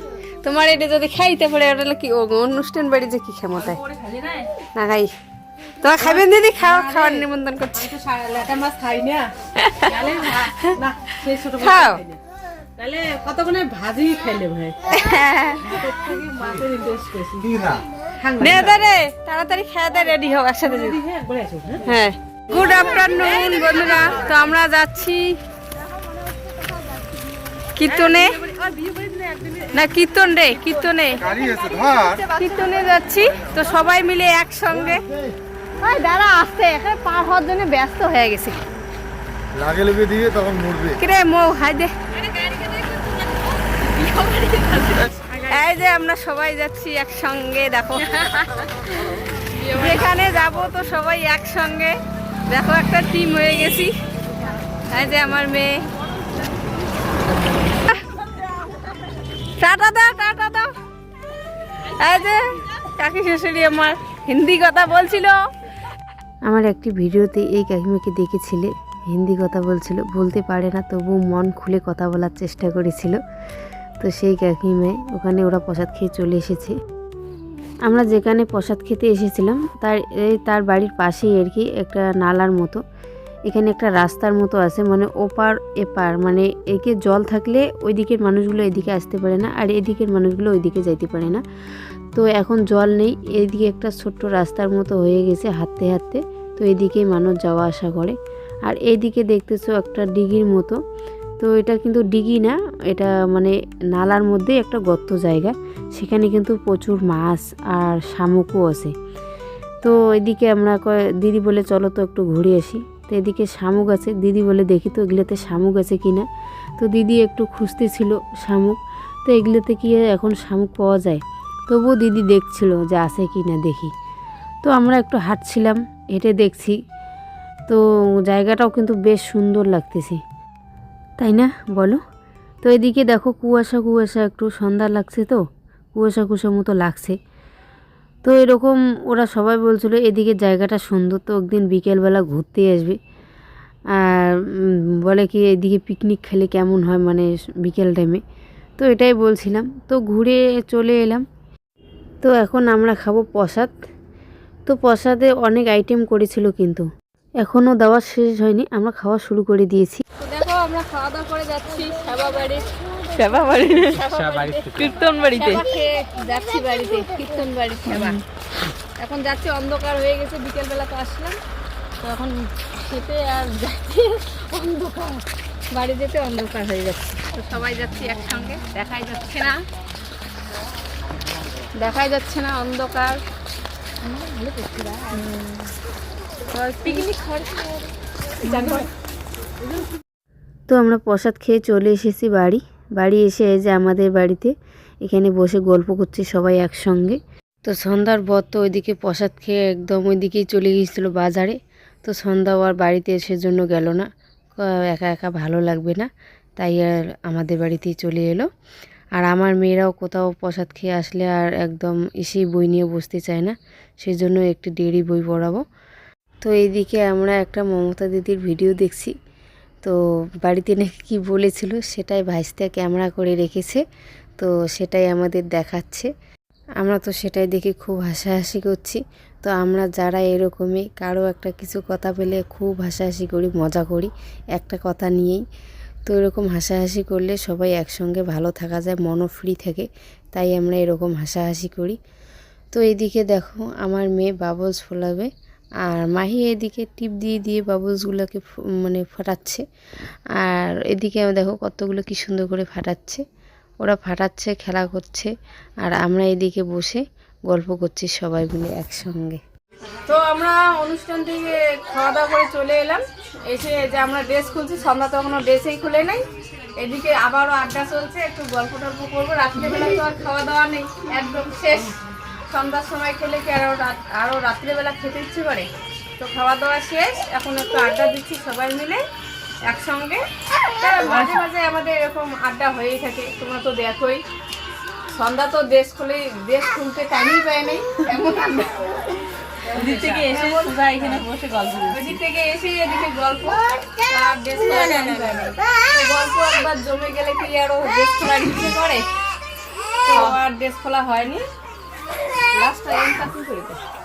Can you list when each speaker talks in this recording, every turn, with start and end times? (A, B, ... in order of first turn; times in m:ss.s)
0:00.6-0:01.9 A
0:01.9-0:03.6 B
0:03.5-0:04.5 C
0:04.8-0:05.1 B
0:05.9-0:06.4 B
0:06.0-0:12.2 C
0:07.0-0:07.6 B
0:12.8-0:14.8 C
0:15.0-0:15.5 A
0:15.6-0:18.9 C
0:18.4-0:20.9 A
0:19.9-0:22.0 C
0:21.9-0:25.3 A
0:22.5-0:24.6 C
0:27.8-0:28.3 A
0:27.8-0:31.5 C
0:29.8-0:31.2 A
0:32.2-0:35.0 A
0:35.8-0:38.6 A
0:39.6-0:40.8 D
0:41.0-0:41.9 A
0:42.3-0:43.0 C
0:43.8-0:45.6 C
0:45.5-0:48.0 A
0:49.5-0:51.9 A
0:52.5-0:53.9 A
0:54.9-0:55.8 A
0:59.6-1:00.6 A
1:02.0-1:05.3 A
1:06.5-1:13.2 B
1:14.0-1:16.8 B
1:17.9-1:22.8 B
1:23.5-1:31.4 B
1:32.2-1:38.2 B
1:38.7-1:40.8 B
1:41.4-1:48.9 B
1:49.8-1:56.2 B
1:56.8-2:03.9 B
2:04.6-2:06.8 B
2:07.7-2:10.2 B
2:11.2-2:12.0 B
2:12.6-2:15.4 B
2:16.0-2:17.2 B
2:18.2-2:23.0 B
2:24.0-2:28.2 B
2:28.8-2:31.2 B
2:32.2-2:33.7 B
2:34.7-2:36.9 B
2:37.4-2:40.0 B
2:40.2-2:48.1 A
2:43.3-2:44.0 B
2:44.2-2:45.0 D
2:45.1-2:45.7 B
2:47.8-2:48.2 B
2:49.0-2:51.4 A
2:52.0-2:52.3 A
2:52.9-2:59.6 A
3:02.0-3:02.4 B
3:02.4-3:02.9 A
3:04.1-3:05.1 C
3:06.6-3:07.5 A
3:08.4-3:08.9 C
3:10.7-3:14.5 B
3:15.0-3:24.0 B
3:24.8-3:28.5 B
3:29.2-3:35.6 B
3:36.4-3:39.1 B
3:39.8-3:43.8 B
3:44.4-3:46.1 B
3:46.8-3:55.4 B
3:56.1-4:02.0 B
4:02.7-4:05.3 B
4:05.9-4:09.6 B
4:10.4-4:13.2 B
4:13.8-4:15.3 B
4:15.8-4:19.4 B
4:20.1-4:26.2 A
4:26.8-4:31.9 A
4:32.5-4:39.0 A
4:39.7-4:40.2 A
4:40.8-4:44.2 A
4:40.9-4:41.5 C
4:45.2-4:49.2 A
4:49.6-4:52.2 C
4:49.8-4:51.1 A
4:51.9-4:59.0 A
4:54.6-4:55.5 C
5:00.1-5:01.4 A
5:00.1-5:00.4 C
5:02.6-5:03.8 A